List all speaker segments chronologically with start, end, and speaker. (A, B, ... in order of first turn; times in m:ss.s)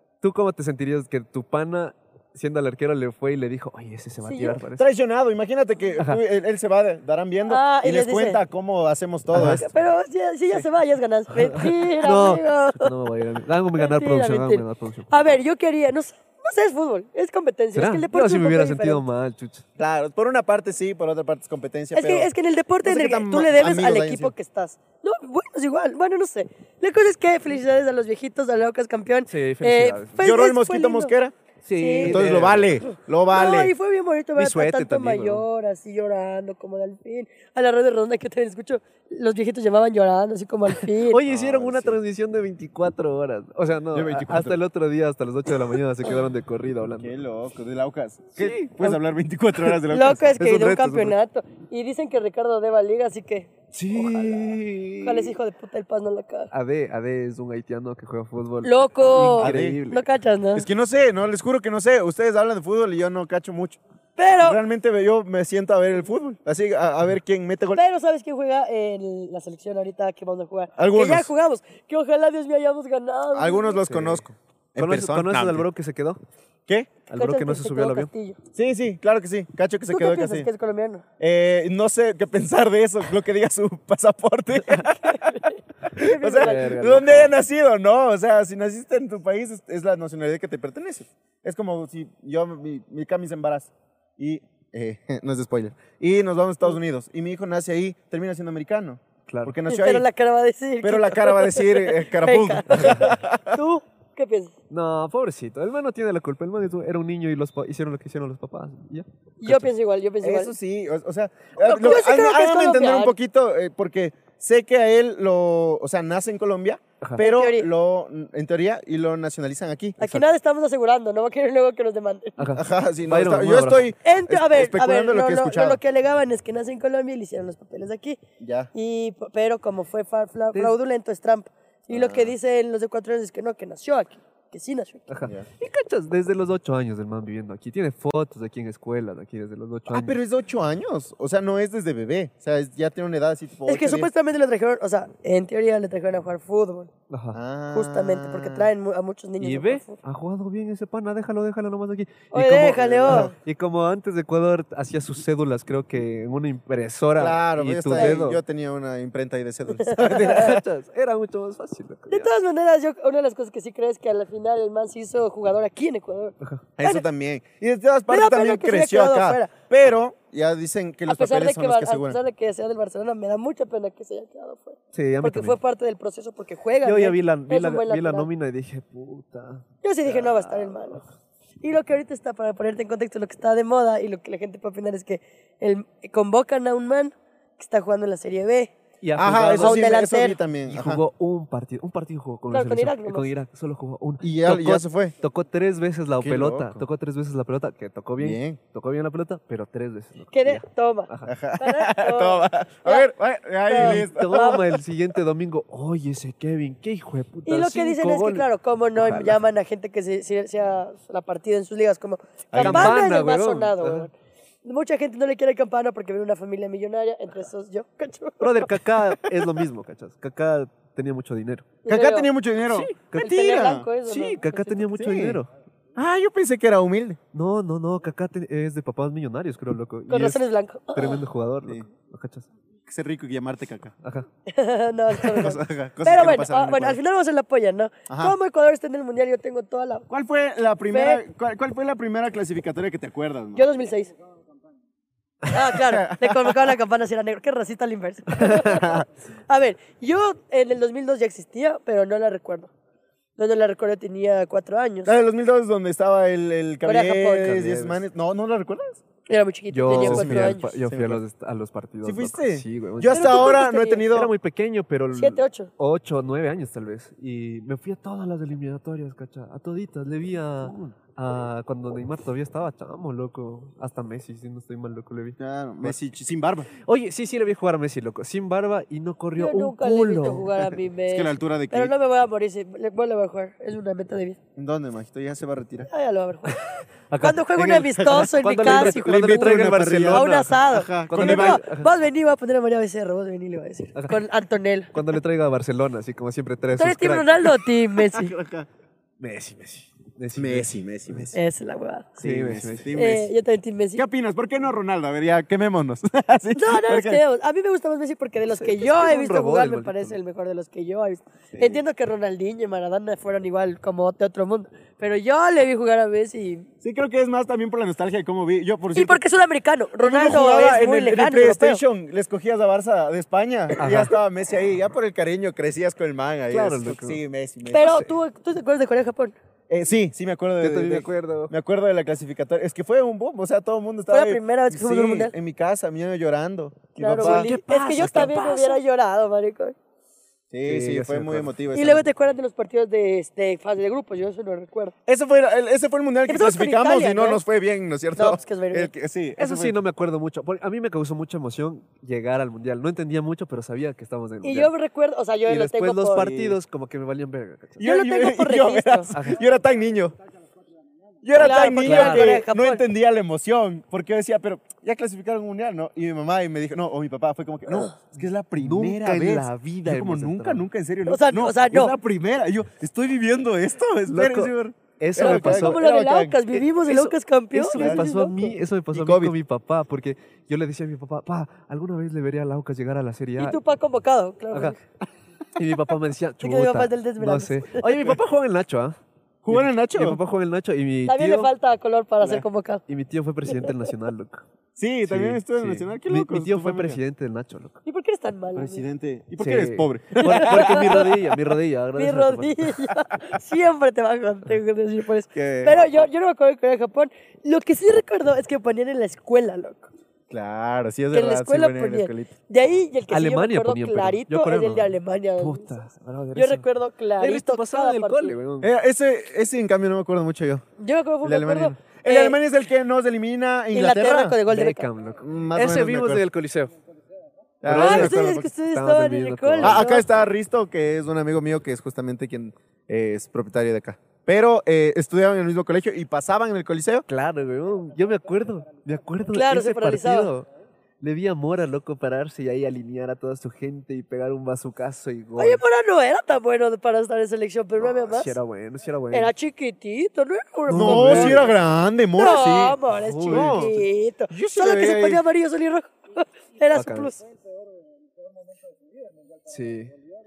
0:00.2-0:04.8 A
0:04.2-0:04.6 B
0:04.8-0:09.7 C
0:07.5-0:08.4 B
0:09.3-0:09.6 A
0:09.4-0:12.9 B
0:11.3-0:15.1 A
0:13.8-0:19.0 B
0:17.7-0:19.6 A
0:19.8-0:22.3 C
0:21.9-0:31.1 B
0:22.8-0:24.3 C
0:29.3-0:30.2 A
0:30.2-0:31.3 C
0:31.6-0:32.8 A
0:31.7-0:32.3 B
0:32.0-0:33.7 C
0:33.3-0:41.2 B
0:34.4-0:35.4 A
0:40.9-0:47.1 A
0:41.2-0:42.0 C
0:43.9-0:44.6 C
0:47.0-0:50.8 C
0:48.4-0:49.0 A
0:49.9-0:56.5 B
0:50.4-0:51.1 A
0:53.7-0:55.4 A
0:56.5-1:00.0 A
0:58.6-1:00.7 B
0:59.4-0:59.8 C
1:00.5-1:03.8 C
1:04.2-1:04.6 B
1:04.4-1:07.8 C
1:07.7-1:13.8 B
1:10.8-1:11.3 C
1:13.3-1:15.7 C
1:13.8-1:14.2 A
1:14.8-1:16.2 A
1:16.7-1:17.0 C
1:17.1-1:18.1 A
1:17.1-1:18.4 B
1:18.5-1:20.5 C
1:19.9-1:21.0 B
1:21.2-1:25.4 C
1:25.0-1:26.8 B
1:25.9-1:40.0 C
1:26.4-1:27.3 A
1:39.3-1:39.5 A
1:39.7-1:44.5 B
1:40.8-1:43.6 C
1:42.7-1:43.1 A
1:44.7-1:49.7 A
1:49.4-1:50.5 B
1:50.2-2:00.0 C
1:51.6-1:53.2 B
1:57.2-1:57.7 B
2:00.0-2:02.4 B
2:02.4-2:03.9 A
2:02.5-2:05.8 C
2:04.0-2:08.2 B
2:08.4-2:08.7 C
2:08.7-2:15.1 B
2:11.9-2:12.3 C
2:15.1-2:20.2 A
2:19.9-2:24.1 C
2:23.7-2:26.9 B
2:27.1-2:27.4 A
2:27.3-2:28.7 C
2:27.7-2:30.0 B
2:29.4-2:38.4 A
2:32.3-2:33.3 B
2:33.0-2:33.3 C
2:37.2-2:40.6 C
2:37.9-2:38.2 B
2:39.7-2:40.6 B
2:40.0-2:42.3 A
2:42.1-2:47.0 B
2:46.8-2:52.2 C
2:48.1-2:49.5 B
2:51.1-2:58.3 B
2:54.9-2:55.6 A
2:56.8-3:01.0 A
2:59.8-3:01.0 B
3:01.6-3:08.7 B
3:09.0-3:09.8 A
3:09.2-3:11.0 C
3:09.5-3:10.4 B
3:10.7-3:21.3 A
3:12.5-3:13.3 B
3:14.2-3:15.1 C
3:16.2-3:16.8 C
3:18.2-3:18.6 C
3:20.3-3:23.1 B
3:21.2-3:24.8 C
3:23.7-3:24.6 B
3:23.7-3:29.4 A
3:27.4-3:34.1 B
3:32.5-3:33.0 C
3:32.5-3:34.1 A
3:34.6-3:38.8 B
3:38.4-3:41.7 A
3:41.8-3:42.3 B
3:41.8-3:43.9 C
3:42.7-3:43.3 A
3:43.2-3:44.9 B
3:44.0-3:45.5 A
3:44.9-3:45.4 C
3:46.0-3:47.2 C
3:47.3-3:50.4 A
3:50.1-3:51.2 B
3:50.9-3:52.5 A
3:52.9-3:53.9 C
3:54.5-4:00.1 B
3:55.3-3:57.0 C
3:58.1-3:58.4 C
4:00.1-4:03.6 C
4:00.9-4:01.2 B
4:03.5-4:04.1 B
4:05.5-4:12.7 B
4:05.7-4:06.7 C
4:08.7-4:09.0 C
4:13.4-4:15.1 B
4:15.0-4:19.0 C
4:16.8-4:17.9 B
4:19.3-4:20.7 B
4:19.7-4:23.4 A
4:19.9-4:21.2 C
4:22.0-4:24.3 C
4:23.1-4:24.1 B
4:24.1-4:36.0 A
4:25.1-4:25.7 B
4:35.4-4:36.7 C
4:36.8-4:40.7 A
4:39.4-4:44.4 B
4:41.1-4:41.9 C
4:44.6-4:45.9 C
4:45.9-4:46.6 B
4:46.5-4:51.9 A
4:47.2-4:54.9 B
4:48.1-4:51.6 C
4:53.9-4:54.2 A
4:54.9-4:57.6 A
4:56.8-4:58.3 B
4:58.0-4:58.7 C
4:59.2-5:01.3 A
5:00.4-5:01.3 C
5:01.3-5:02.1 B
5:02.2-5:03.3 C
5:02.2-5:03.0 A
5:03.0-5:04.0 B
5:04.0-5:07.2 C
5:06.5-5:16.7 B
5:08.5-5:10.2 A
5:11.5-5:11.8 C
5:16.8-5:19.2 C
5:18.9-5:21.8 B
5:20.0-5:27.9 C
5:23.8-5:24.1 A
5:26.5-5:27.2 A
5:27.7-5:29.4 B
5:27.7-5:28.1 A
5:29.7-5:37.5 C
5:30.6-5:31.5 A
5:34.1-5:35.3 B
5:37.0-5:39.8 B
5:37.2-5:38.8 A
5:40.5-5:42.0 C
5:40.6-5:41.9 A
5:41.7-5:44.9 B
5:45.1-5:49.8 C
5:46.3-5:47.4 B
5:48.2-5:48.9 B
5:49.4-5:54.7 A
5:54.4-5:56.4 B
5:55.4-5:57.8 A
5:56.2-5:56.6 C
5:57.8-6:00.2 C
5:57.8-5:59.1 B
5:59.1-5:59.4 A
6:01.2-6:16.6 C
6:01.4-6:02.8 B
6:01.4-6:02.4 A
6:08.6-6:10.6 A
6:11.0-6:12.0 B
6:14.1-6:15.8 A
6:15.2-6:18.5 B
6:16.8-6:23.6 A
6:17.7-6:18.0 C
6:18.9-6:19.3 C
6:23.4-6:24.8 B
6:25.6-6:29.0 A
6:26.4-6:27.9 B
6:29.4-6:30.2 C
6:29.5-6:31.5 A
6:31.0-6:32.8 B
6:32.3-6:34.4 A
6:34.8-6:37.0 C
6:35.1-6:37.8 A
6:37.8-6:38.8 B
6:38.5-6:41.0 C
6:39.4-6:42.8 A
6:40.2-6:41.2 B
6:42.0-6:49.9 B
6:45.3-6:45.8 C
6:50.3-6:52.3 C
6:51.1-6:55.7 B
6:53.1-6:56.6 A
6:56.3-6:58.4 B
6:57.2-6:58.7 A
6:58.6-7:00.6 C
7:00.8-7:02.4 B
7:01.2-7:04.4 C
7:03.7-7:04.9 B
7:04.5-7:06.7 A
7:05.2-7:06.2 C
7:07.6-7:08.4 C
7:07.6-7:09.8 A
7:07.7-7:10.1 B
7:09.6-7:17.0 C
7:17.1-7:20.5 A
7:19.3-7:20.3 B
7:21.0-7:25.6 A
7:25.4-7:28.4 B
7:27.8-7:29.3 A
7:29.1-7:31.5 B
7:30.7-7:31.5 A
7:30.7-7:32.8 C
7:32.2-7:37.2 B
7:32.9-7:33.8 A
7:33.3-7:33.7 C
7:34.3-7:35.2 C
7:36.7-7:37.1 A
7:39.5-7:39.9 A